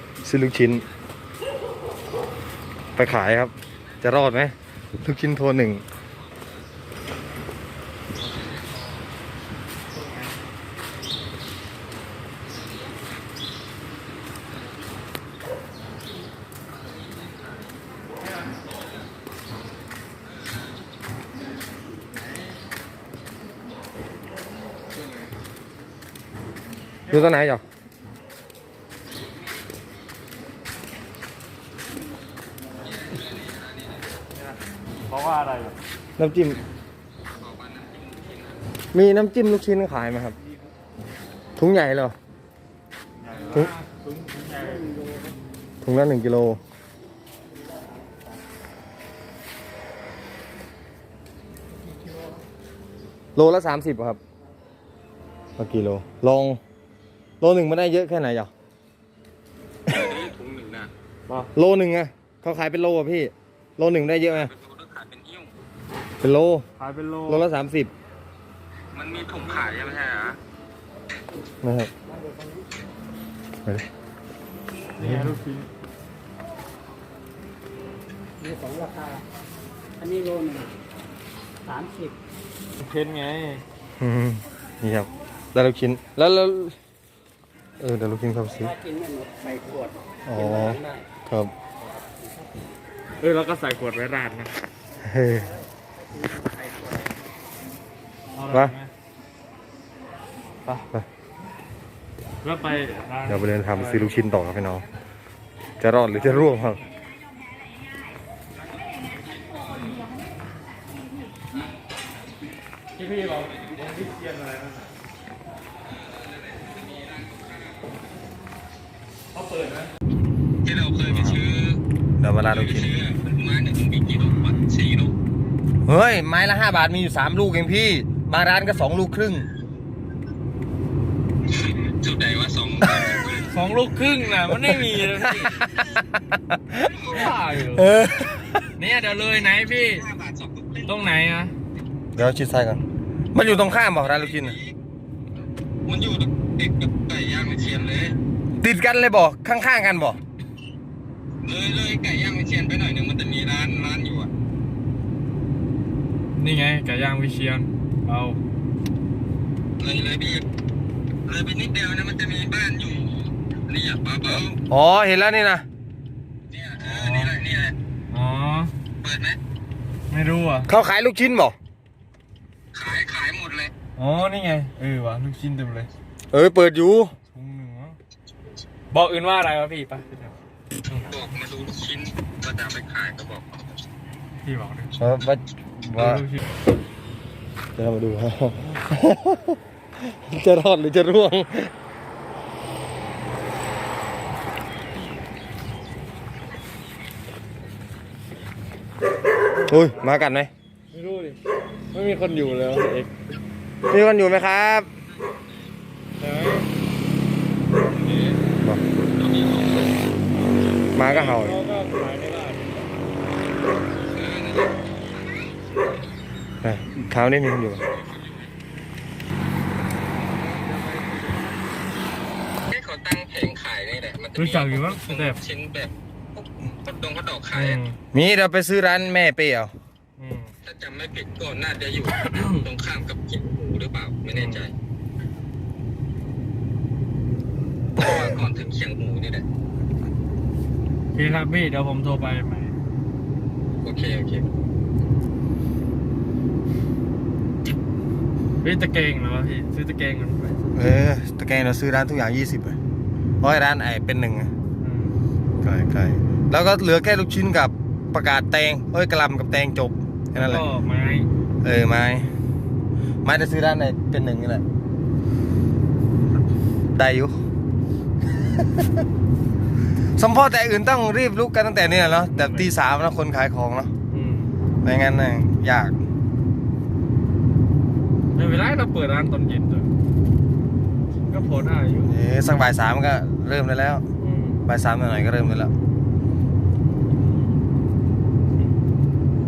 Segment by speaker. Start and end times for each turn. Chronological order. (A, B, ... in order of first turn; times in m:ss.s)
0:00.2-0:00.8 A
0:03.0-0:05.8 A
0:27.1-0:27.6 A
0:33.0-0:34.0 B
0:34.4-0:35.8 C
0:36.2-0:36.6 A
0:37.4-0:38.6 B
0:38.9-0:40.4 A
0:41.6-0:42.2 A
0:43.2-0:45.0 C
0:45.8-0:46.6 A
0:53.4-0:54.2 A
0:55.6-0:56.6 A
0:57.4-0:58.5 A
0:59.9-1:00.9 B
1:01.5-1:04.5 A
1:04.3-1:05.6 B
1:06.2-1:06.7 A
1:06.8-1:07.4 C
1:07.3-1:07.9 A
1:08.9-1:10.4 B
1:11.6-1:11.9 A
1:15.0-1:15.7 C
1:15.0-1:15.4 A
1:18.4-1:19.2 D
1:20.0-1:20.7 D
1:21.7-1:22.1 D
1:22.8-1:23.6 C
1:24.0-1:26.8 A
1:27.8-1:28.8 A
1:28.8-1:29.9 D
1:30.3-1:31.5 A
1:33.2-1:34.5 C
1:35.0-1:35.5 A
1:36.4-1:37.0 D
1:38.4-1:38.9 C
1:42.4-1:44.1 C
1:43.3-1:44.8 A
1:45.8-1:46.8 A
1:46.2-1:46.7 C
1:48.9-1:50.0 B
1:53.0-1:54.9 C
1:56.0-1:57.8 B
1:59.3-1:59.9 C
2:00.6-2:01.8 B
2:02.2-2:02.9 A
2:02.4-2:05.2 B
2:05.9-2:09.5 A
2:11.5-2:13.6 B
2:13.5-2:15.6 C
2:14.9-2:16.9 A
2:16.8-2:17.3 B
2:17.1-2:17.9 C
2:17.7-2:18.7 A
2:18.8-2:20.0 C
2:19.5-2:21.0 B
2:20.8-2:21.5 C
2:22.2-2:24.6 A
2:23.8-2:24.8 B
2:25.9-2:28.2 B
2:28.6-2:30.2 A
2:31.4-2:34.3 B
2:36.4-2:38.4 C
2:39.8-2:40.5 B
2:41.3-2:44.6 B
2:44.7-2:45.6 A
2:46.5-2:47.8 B
2:46.8-2:47.4 C
2:48.1-2:48.7 C
2:49.0-2:49.4 B
2:50.1-2:50.7 C
2:50.7-2:51.6 A
2:52.7-2:53.7 B
2:54.0-2:55.9 C
2:56.3-2:57.2 A
2:57.3-2:58.0 C
2:58.9-3:00.3 C
3:00.9-3:03.6 B
3:04.4-3:05.0 C
3:05.0-3:06.2 A
3:06.0-3:06.4 C
3:07.8-3:11.7 A
3:19.7-3:20.5 A
3:20.9-3:21.4 C
3:21.9-3:23.1 C
3:23.9-3:24.9 A
3:26.2-3:26.7 C
3:27.9-3:28.4 C
3:29.1-3:30.0 B
3:31.0-3:31.6 A
3:31.0-3:32.9 C
3:34.1-3:34.8 B
3:36.6-3:37.8 A
3:37.9-3:38.5 B
3:40.2-3:41.5 C
3:42.7-3:47.8 B
3:44.4-3:45.4 C
3:47.5-3:48.0 C
3:48.1-3:49.7 A
3:50.2-3:50.5 C
3:50.6-3:54.7 B
3:52.3-3:52.6 C
3:54.3-3:54.6 C
3:58.0-3:59.4 B
4:01.2-4:02.8 C
4:03.8-4:04.5 B
4:08.6-4:10.7 C
4:10.7-4:12.8 A
4:13.4-4:14.5 A
4:14.8-4:15.2 C
4:15.6-4:20.7 A
4:20.4-4:21.3 C
4:21.6-4:22.3 A
4:23.2-4:24.6 A
4:27.0-4:27.4 A
4:28.4-4:29.0 A
4:30.2-4:33.9 A
4:32.1-4:32.7 C
4:34.1-4:34.5 C
4:34.8-4:36.0 A
4:38.4-4:39.9 C
4:41.3-4:42.1 C
4:42.0-4:44.0 A
4:44.2-4:44.6 C
4:44.7-4:45.7 A